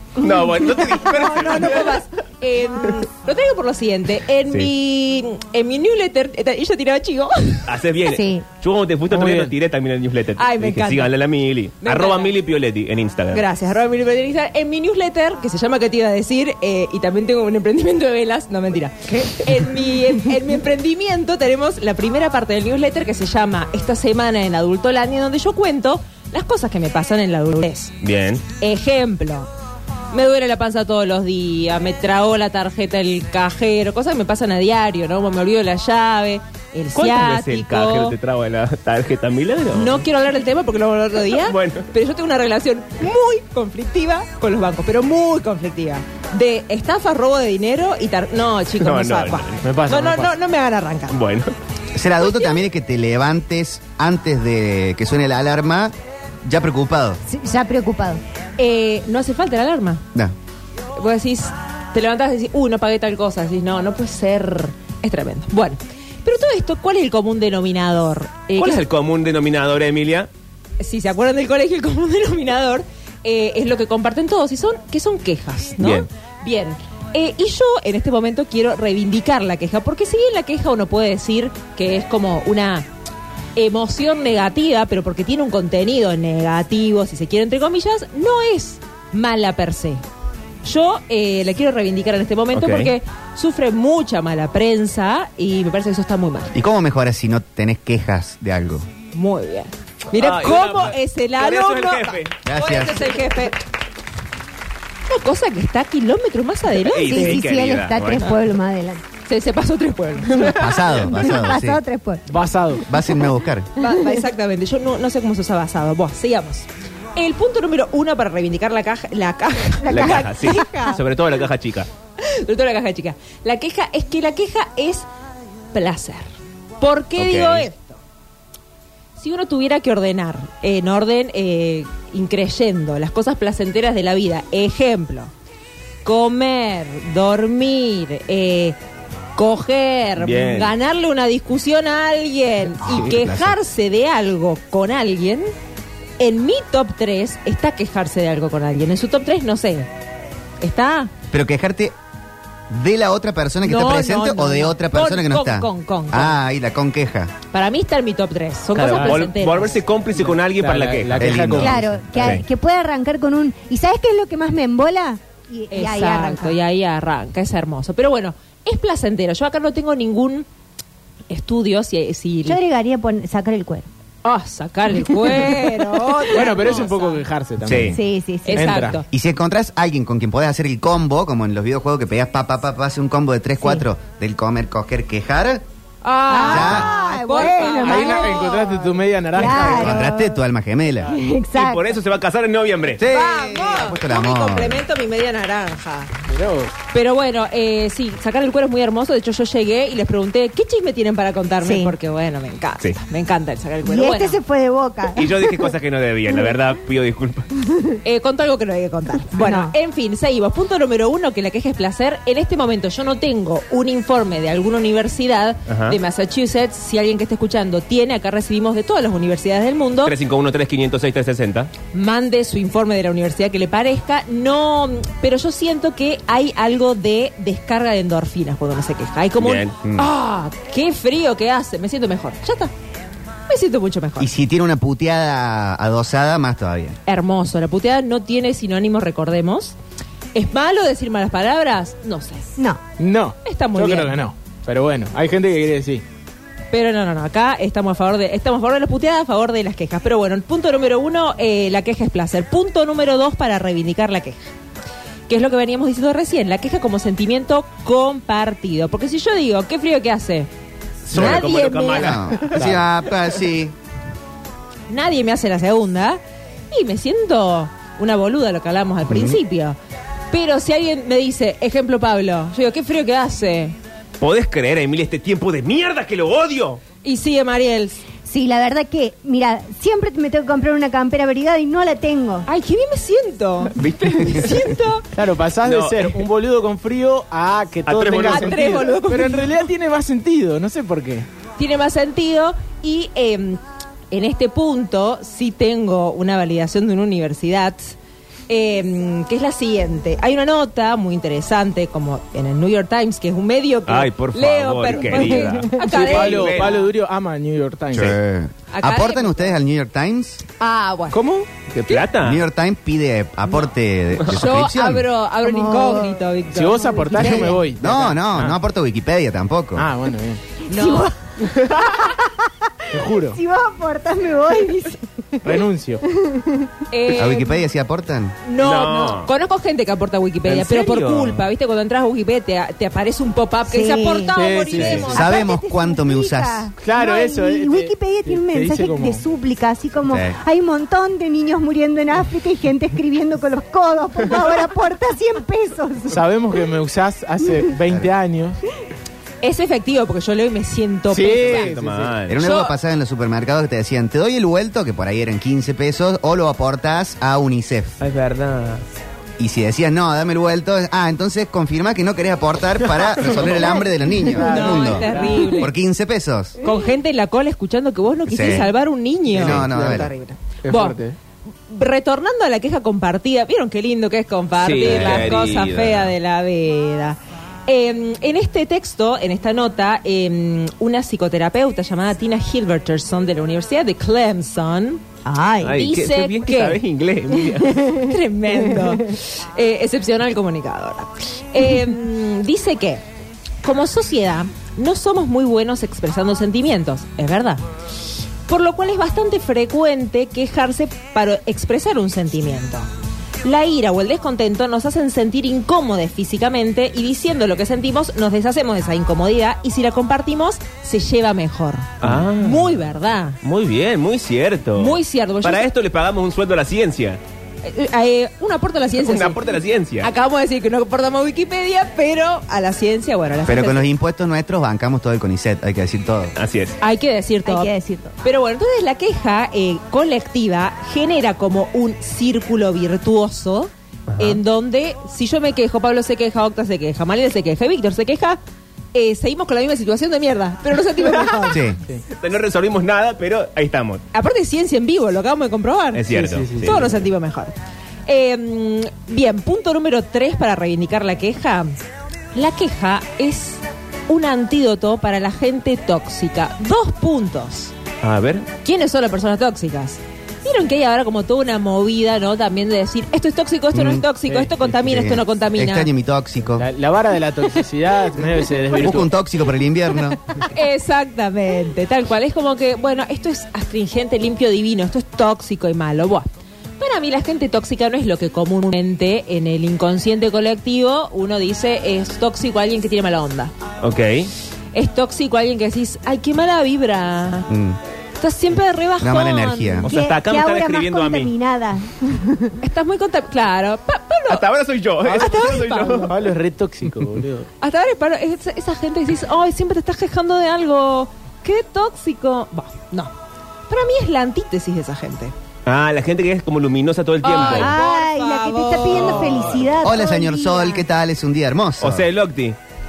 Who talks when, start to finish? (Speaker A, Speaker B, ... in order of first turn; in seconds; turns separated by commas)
Speaker A: 0.2-2.0, Speaker B: 1.1-7.7, Speaker A: 7.7-13.4, Speaker C: 8.1-8.4, Speaker D: 9.1-9.5, Speaker B: 10.4-11.1, Speaker B: 11.8-12.3, Speaker B: 13.3-27.9, Speaker A: 28.0-28.4, Speaker B: 28.5-29.5, Speaker B: 30.1-38.1, Speaker A: 37.0-40.0, Speaker B: 39.7-51.2, Speaker A: 41.5-41.9, Speaker A: 48.8-49.6, Speaker D: 49.6-50.3, Speaker A: 51.1-51.5, Speaker E: 51.9-55.9, Speaker E: 56.5-57.2, Speaker C: 57.3-58.2, Speaker B: 58.6-60.0, Speaker B: 61.0-68.8, Speaker A: 68.6-70.3, Speaker B: 70.8-82.9, Speaker A: 75.8-76.1, Speaker B: 83.6-90.0, Speaker B: 90.6-96.5, Speaker A: 92.5-92.9, Speaker E: 96.5-98.9, Speaker B: 99.1-103.6, Speaker A: 100.1-102.4, Speaker E: 102.5-103.1, Speaker B: 105.1-107.4, Speaker A: 106.9-108.3, Speaker C: 106.9-109.0, Speaker B: 109.3-110.8, Speaker E: 110.3-111.8, Speaker C: 110.9-112.3, Speaker D: 112.3-112.8, Speaker E: 112.9-113.7, Speaker B: 113.8-121.0, Speaker C: 119.8-121.0, Speaker A: 119.9-121.9, Speaker B: 122.2-125.1, Speaker B: 125.7-126.3, Speaker B: 126.8-128.0, Speaker A: 127.2-127.7, Speaker B: 129.2-135.3, Speaker B: 136.1-138.8, Speaker B: 139.4-145.5, Speaker A: 140.2-140.7, Speaker E: 142.8-143.6, Speaker B: 146.2-149.9, Speaker B: 150.6-151.1, Speaker E: 151.3-151.9, Speaker E: 152.7-157.3, Speaker B: 153.6-156.4, Speaker B: 157.5-159.8, Speaker A: 158.8-161.5, Speaker D: 160.2-162.0, Speaker E: 161.2-161.8, Speaker C: 161.6-166.6, Speaker A: 162.1-162.4, Speaker B: 165.7-170.5, Speaker B: 171.3-172.6, Speaker C: 172.5-173.9, Speaker B: 174.2-177.2, Speaker D: 176.3-178.0, Speaker A: 177.7-178.0, Speaker C: 177.9-178.9, Speaker B: 178.4-179.1, Speaker D: 178.5-179.0, Speaker E: 179.1-185.6, Speaker B: 186.0-188.9, Speaker C: 186.3-190.4, Speaker E: 186.4-186.9, Speaker D: 187.8-190.1, Speaker E: 189.6-191.2, Speaker C: 191.1-192.0, Speaker A: 191.5-193.0, Speaker E: 193.0-194.8, Speaker B: 193.0-196.1, Speaker D: 196.3-196.7, Speaker B: 196.9-204.4, Speaker C: 201.6-201.9, Speaker C: 203.8-205.7, Speaker A: 205.1-207.5, Speaker B: 208.0-220.1, Speaker C: 209.3-209.7, Speaker A: 215.7-216.0, Speaker A: 220.0-221.7, Speaker B: 221.9-232.7, Speaker A: 229.4-229.8, Speaker E: 229.8-230.1, Speaker B: 233.5-234.3, Speaker E: 234.2-237.0, Speaker B: 237.1-239.8, Speaker B: 240.3-242.4, Speaker D: 243.0-246.0, Speaker B: 243.4-244.2, Speaker B: 246.7-254.5, Speaker B: 255.3-260.5, Speaker A: 261.1-262.8, Speaker B: 261.1-262.2, Speaker E: 261.1-261.4, Speaker E: 261.9-263.8, Speaker B: 264.9-269.8, Speaker E: 269.1-269.4, Speaker B: 270.3-273.8, Speaker A: 274.2-276.8, Speaker B: 277.0-278.0, Speaker C: 278.3-282.5, Speaker B: 282.5-285.0, Speaker A: 283.8-284.6, Speaker D: 285.1-291.3, Speaker A: 285.6-286.2, Speaker A: 287.9-288.7, Speaker B: 288.3-289.5, Speaker B: 291.6-293.6, Speaker B: 294.1-297.9, Speaker B: 298.5-306.9, Speaker A: 303.9-306.8, Speaker C: 304.9-305.6, Speaker D: 305.8-308.1, Speaker E: 307.9-310.4, Speaker B: 308.7-309.6, Speaker B: 310.6-311.2, Speaker D: 311.1-311.5, Speaker A: 311.7-312.4, Speaker E: 312.2-315.1, Speaker B: 314.3-317.1, Speaker C: 315.4-316.2, Speaker D: 316.5-318.6, Speaker C: 316.9-317.6, Speaker E: 317.2-319.9, Speaker D: 319.8-320.4, Speaker B: 320.7-321.1, Speaker C: 320.7-322.3, Speaker C: 322.8-326.7, Speaker D: 322.9-323.4, Speaker D: 325.4-326.0, Speaker B: 326.9-327.6, Speaker E: 327.1-328.4, Speaker B: 328.4-335.5, Speaker A: 328.6-329.3, Speaker A: 330.4-331.4, Speaker C: 333.7-346.2, Speaker D: 334.3-335.1, Speaker E: 335.1-336.7, Speaker D: 336.8-339.2, Speaker E: 340.1-340.4, Speaker D: 346.1-348.6, Speaker B: 349.4-351.7, Speaker D: 351.1-352.1, Speaker A: 351.5-352.4, Speaker E: 352.3-358.0, Speaker B: 352.4-352.7, Speaker A: 358.0-358.8, Speaker E: 359.4-366.6, Speaker C: 363.6-364.8, Speaker B: 364.4-365.7, Speaker D: 364.6-365.4, Speaker B: 366.6-371.0, Speaker E: 368.3-368.7, Speaker E: 369.3-370.1, Speaker D: 369.3-370.1, Speaker D: 370.6-371.1, Speaker B: 371.7-385.0, Speaker A: 374.6-376.1, Speaker C: 385.2-385.9, Speaker A: 385.6-387.9, Speaker B: 385.7-386.8, Speaker C: 387.5-388.9, Speaker B: 388.0-393.0, Speaker B: 393.6-397.6, Speaker B: 398.5-402.9, Speaker B: 403.4-413.4, Speaker A: 412.0-412.8, Speaker A: 413.4-417.2, Speaker B: 414.8-415.7, Speaker B: 417.6-419.4, Speaker A: 419.0-420.1, Speaker B: 420.0-423.9, Speaker E: 423.5-426.3, Speaker A: 426.4-426.8, Speaker B: 426.8-427.7, Speaker C: 427.5-428.1, Speaker B: 428.2-438.4, Speaker A: 434.1-434.4, Speaker B: 438.9-441.6, Speaker E: 441.5-441.8, Speaker A: 442.1-444.0, Speaker B: 444.1-447.5, Speaker A: 445.9-446.8, Speaker D: 446.1-447.0, Speaker B: 448.1-451.8, Speaker B: 452.4-457.7, Speaker A: 458.0-458.5, Speaker B: 458.6-465.9, Speaker E: 463.7-464.1, Speaker D: 464.3-464.5, Speaker E: 464.7-466.7, Speaker D: 466.6-469.1, Speaker E: 468.8-470.2, Speaker B: 470.4-483.5, Speaker A: 483.8-484.3, Speaker B: 484.7-487.5, Speaker E: 487.5-487.8, Speaker B: 488.2-489.9, Speaker E: 489.0-489.9, Speaker C: 489.8-492.6, Speaker A: 489.9-491.3, Speaker B: 492.6-494.4, Speaker A: 494.3-496.1, Speaker B: 495.1-496.1, Speaker D: 496.0-497.5, Speaker B: 497.6-503.1, Speaker B: 503.7-505.3, Speaker A: 505.7-507.8, Speaker B: 507.2-509.6, Speaker C: 507.3-510.8, Speaker A: 509.0-509.6, Speaker E: 509.8-512.0, Speaker A: 511.8-512.6